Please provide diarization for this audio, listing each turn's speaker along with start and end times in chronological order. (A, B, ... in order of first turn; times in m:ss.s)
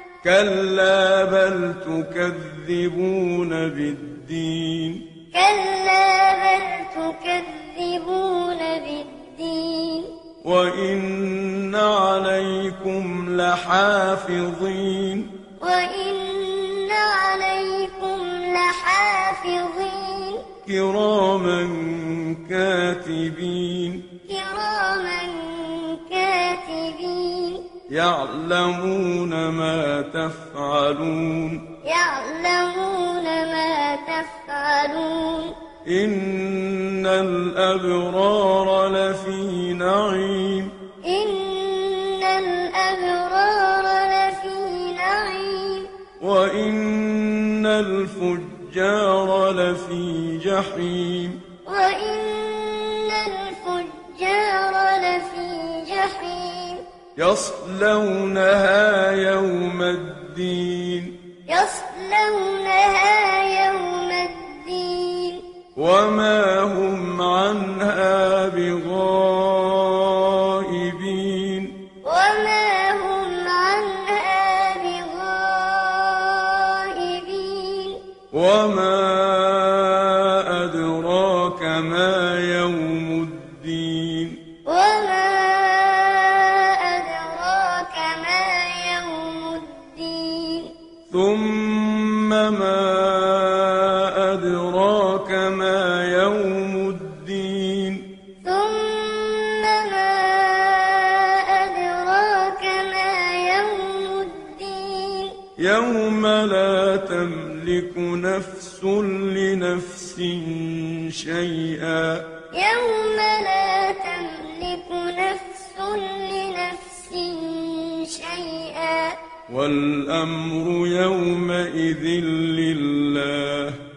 0:00.2-0:05.0 A
0:05.3-0:10.1 B
0:10.4-0:15.3 A
0:15.6-0:20.4 B
0:20.6-0:24.0 A
0:24.3-0:27.6 B
0:27.9-0:31.6 A
0:31.8-0:35.6 B
0:35.8-0:40.7 A
0:41.0-0:45.9 B
0:46.2-0:51.4 A
0:51.7-0:56.8 B
0:57.2-1:01.2 A
1:01.5-1:05.4 B
1:05.8-1:11.8 A
1:12.0-1:18.0 B
1:18.3-1:24.4 A
1:24.6-1:30.7 B
1:31.1-1:38.0 A
1:38.4-1:45.4 B
1:45.6-1:52.3 A
1:52.5-1:59.2 B
1:59.5-2:03.8 A